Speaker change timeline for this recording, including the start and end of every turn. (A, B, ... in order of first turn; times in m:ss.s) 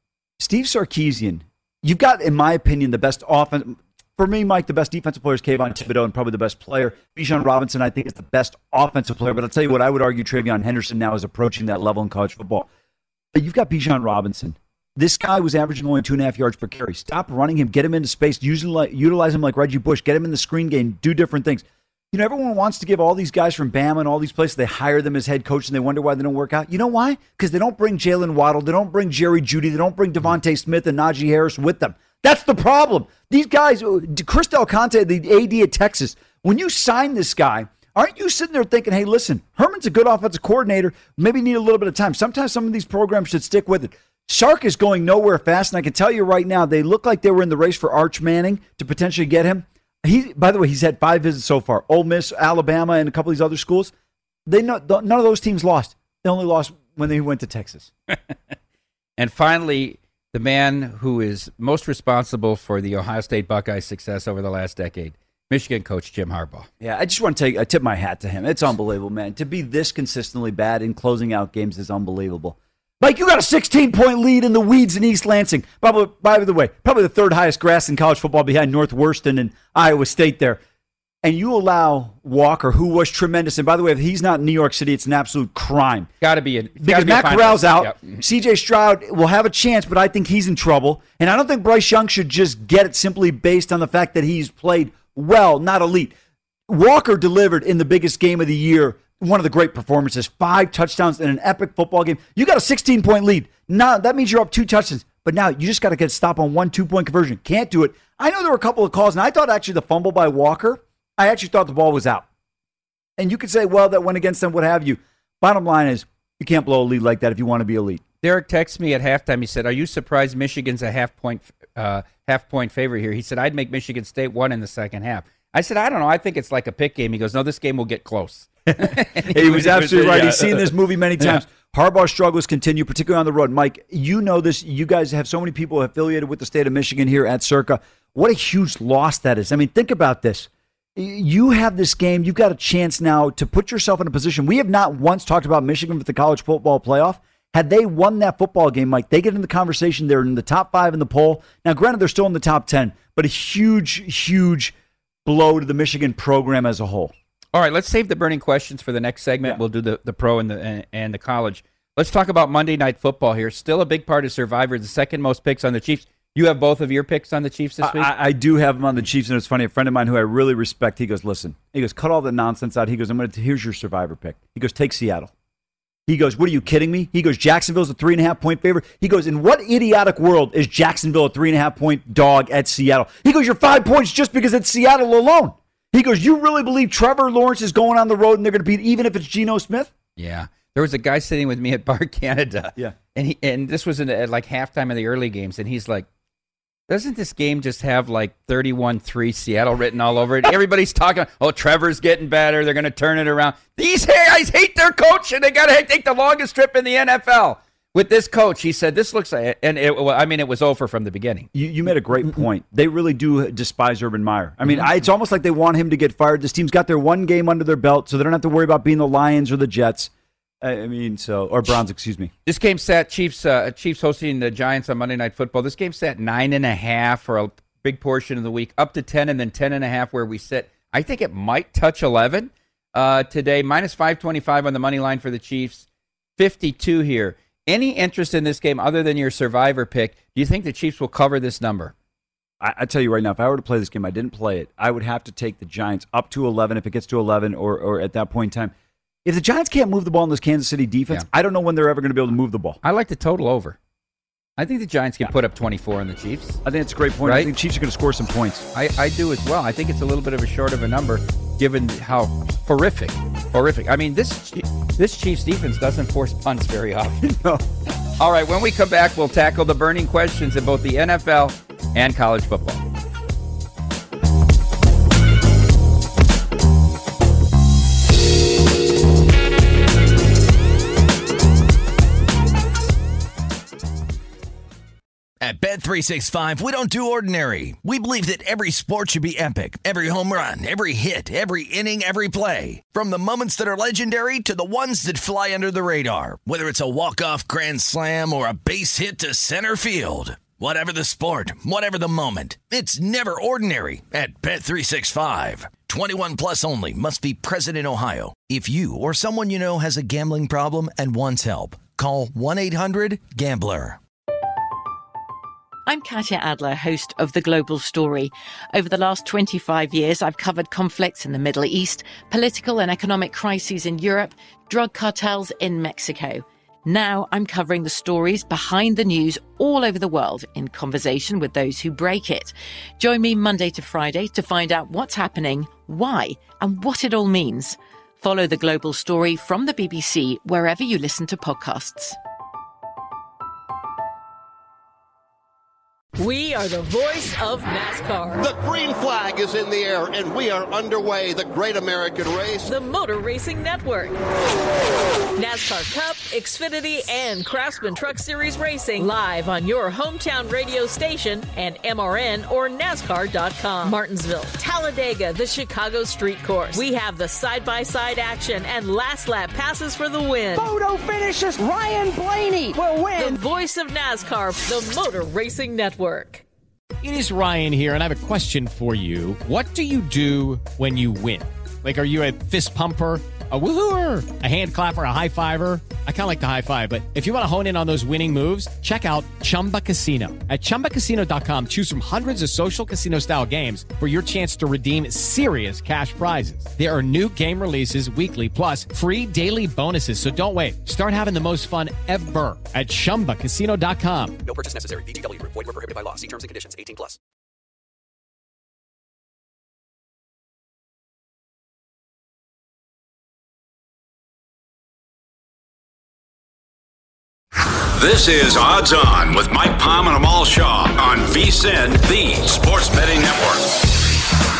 0:00.4-0:12.7 A
0:13.3-0:53.9 A
0:54.5-0:57.9 A
0:59.2-1:06.7 B
1:06.8-1:20.6 A
1:21.2-1:26.1 A
1:26.2-1:28.2 B
1:26.8-1:36.1 A
1:36.7-1:52.3 A
1:53.2-1:58.0 A
1:58.2-2:11.4 B
2:08.8-2:37.1 A
2:37.5-2:48.1 B
2:47.8-2:55.3 A
2:56.1-3:09.9 A
3:10.2-3:16.1 B
3:16.9-3:31.5 B
3:31.5-3:42.3 A
3:42.5-3:55.9 B
3:56.4-4:01.9 B
4:02.6-4:08.7 A
4:09.2-4:12.8 A
4:12.8-4:13.8 B
4:14.6-4:16.6 B
4:16.6-4:18.6 A
4:17.2-4:17.5 B
4:18.7-4:27.2 B
4:27.2-4:27.6 A
4:28.2-4:32.8 B
4:45.4-5:14.0 C
5:15.9-5:42.2 D
5:46.2-5:48.5 E
5:48.4-5:52.7 F
5:52.6-5:54.2 E
5:55.4-6:10.6 E
6:10.6-6:13.4 G
6:13.2-6:16.4 E
6:17.0-6:44.4 H
6:44.4-6:47.2 I
6:58.0-7:03.7 J